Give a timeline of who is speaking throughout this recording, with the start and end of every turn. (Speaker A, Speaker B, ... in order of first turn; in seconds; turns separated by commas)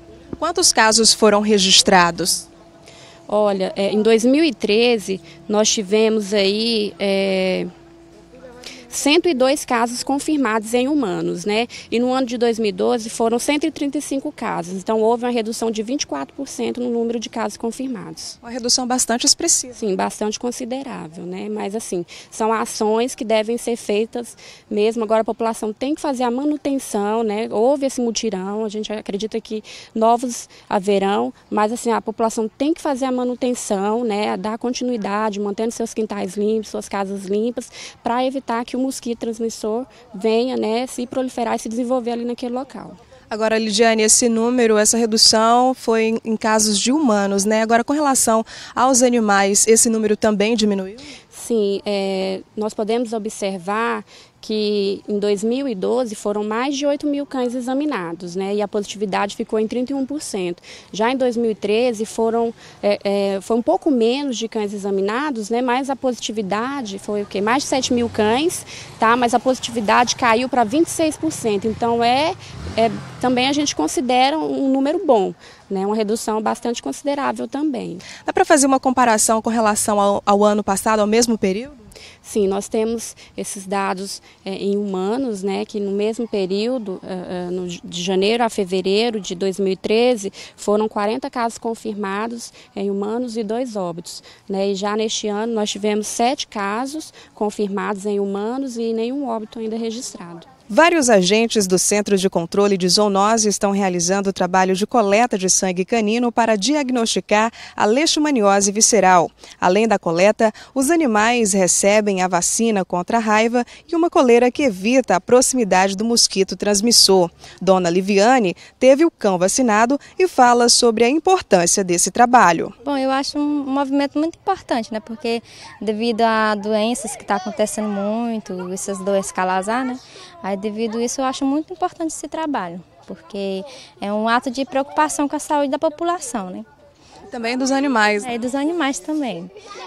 Speaker A: 0.4-2.5, Speaker B: 3.3-7.7, Speaker B: 8.9-18.4, Speaker A: 18.4-19.7, Speaker B: 19.7-43.0, Speaker A: 43.3-51.0, Speaker B: 51.3-78.2, Speaker A: 78.2-81.8, Speaker B: 82.2-100.5, Speaker A: 100.7-122.8, Speaker C: 122.8-136.7, Speaker A: 137.3-138.3, Speaker C: 138.2-139.5